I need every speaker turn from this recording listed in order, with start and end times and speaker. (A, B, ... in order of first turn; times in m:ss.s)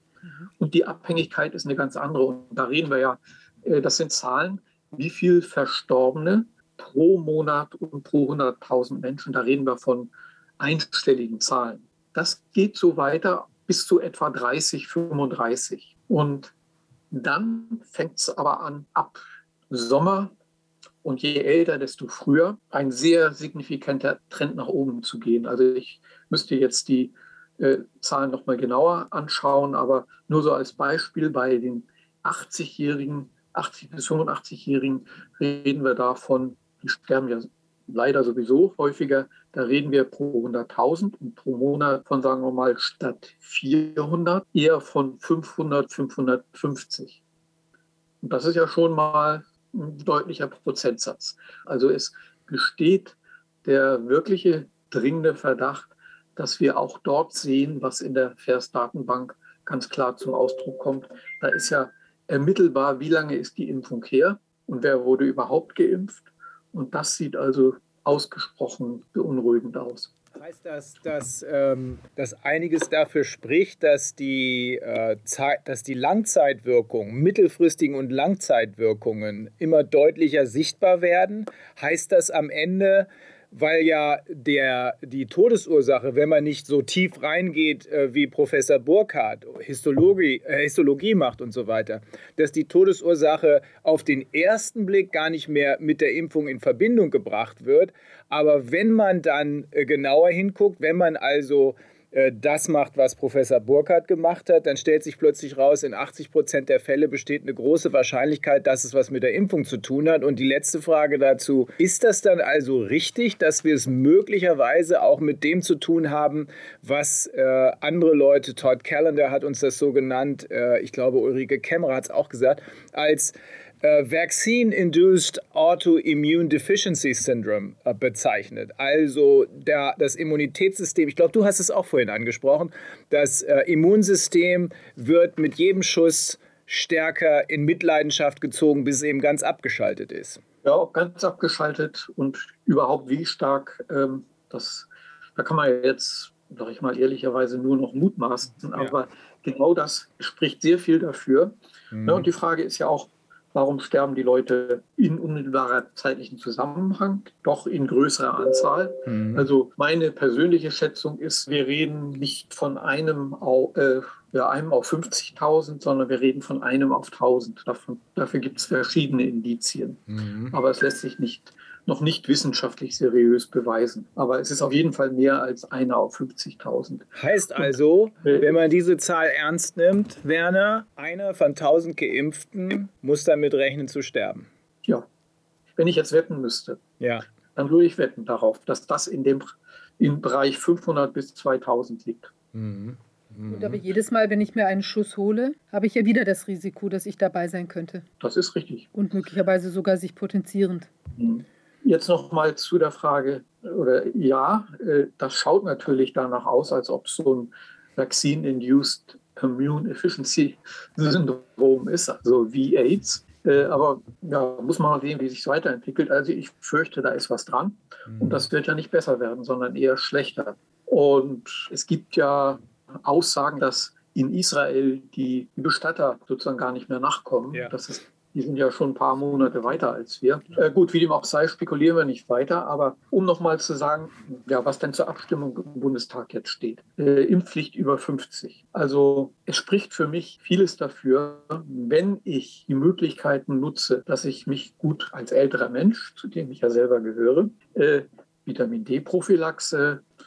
0:00.6-0:16.5 A
0:17.1-0:20.3 A
0:21.0-0:47.2 A
0:48.2-1:10.1 A
1:10.4-2:20.4 B
2:20.6-2:58.5 A
2:31.9-2:32.3 B
2:39.1-2:39.4 B
2:50.1-2:50.5 B
2:57.2-3:04.5 B
3:05.8-3:06.8 A
3:07.0-3:07.2 B
3:07.5-3:12.3 A
3:12.5-3:13.8 B
3:13.5-3:18.0 C
3:18.2-3:18.9 A
3:18.9-3:20.9 C
3:21.2-4:10.0 A
3:38.1-3:38.4 B
3:49.3-3:49.7 C